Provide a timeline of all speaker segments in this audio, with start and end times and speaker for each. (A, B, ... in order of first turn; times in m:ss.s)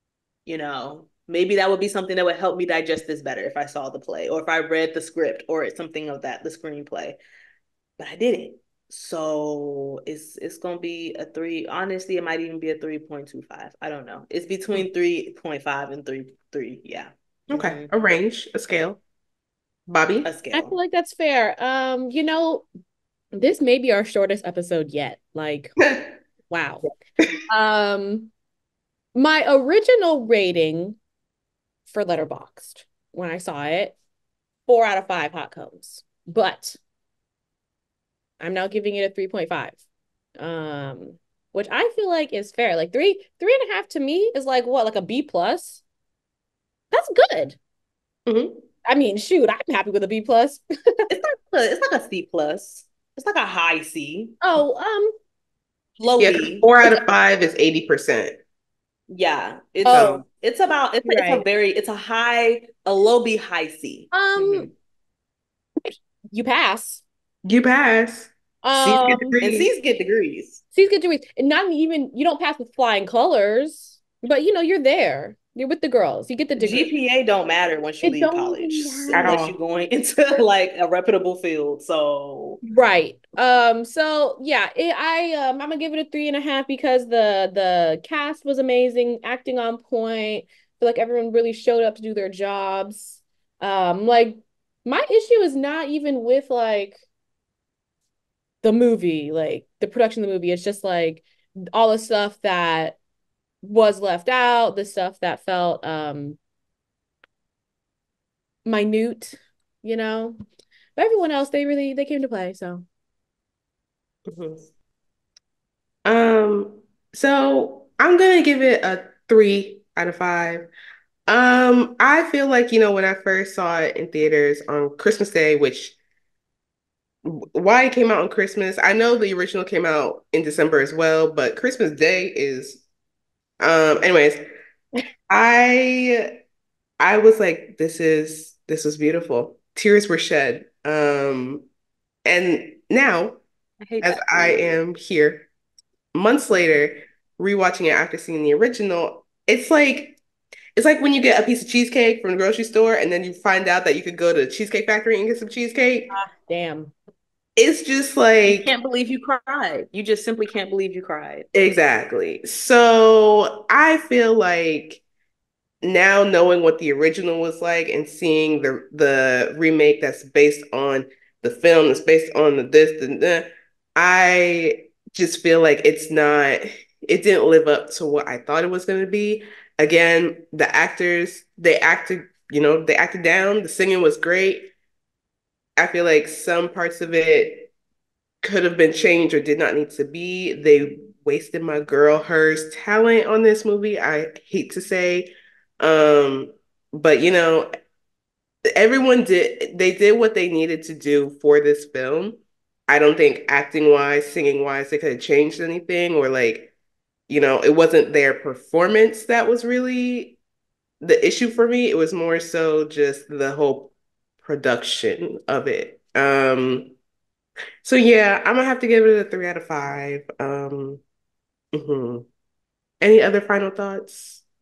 0:00.5-0:07.2 A
0:08.0-0:17.9 A
0:17.5-0:19.0 B
0:19.9-0:20.3 B
0:20.2-0:20.8 A
0:20.5-0:22.7 C
0:23.3-0:25.8 C
0:25.8-0:26.1 B
0:26.5-0:26.9 C
0:27.5-0:28.3 C
0:29.2-0:31.0 C
0:31.9-0:34.0 C
0:34.7-0:36.8 C
0:38.4-0:39.8 C
0:40.4-0:45.8 C
0:46.9-0:47.6 C
0:48.3-0:48.6 B
0:48.8-0:51.1 C
0:51.1-0:54.4 A
0:54.4-0:55.1 C
0:56.0-0:56.7 A
0:56.2-0:58.4 B
0:59.1-1:04.7 A
0:59.8-1:00.2 C
0:59.9-1:00.2 B
1:01.0-1:01.4 C
1:04.1-1:04.7 C
1:05.9-1:07.0 C
1:07.4-1:09.7 B
1:08.6-1:09.4 C
1:09.4-1:10.6 A
1:10.7-1:16.9 C
1:16.6-1:22.6 A
1:18.0-1:19.4 C
1:19.1-1:19.6 B
1:22.7-1:37.0 C
1:38.6-1:43.0 C
1:43.6-1:46.4 C
1:48.7-1:50.4 C
1:51.0-1:52.8 C
1:54.3-1:54.7 B
1:56.0-2:00.7 B
2:01.3-2:06.0 B
2:07.2-2:12.8 B
2:13.6-2:14.4 B
2:15.3-2:16.3 B
2:17.0-2:21.6 B
2:22.2-2:23.4 B
2:23.8-2:24.6 A
2:24.0-2:25.5 B
2:26.1-2:30.2 B
2:30.8-2:36.1 B
2:36.1-2:36.9 C
2:37.6-2:38.7 B
2:38.4-2:41.5 A
2:41.5-2:45.0 B
2:45.8-3:04.7 B
3:05.8-3:07.7 B
3:08.4-3:17.7 B
3:18.7-3:26.7 B
3:27.3-3:30.4 B
3:31.0-3:37.0 B
3:37.8-3:41.0 B
3:41.7-3:42.3 B
3:43.0-3:44.4 B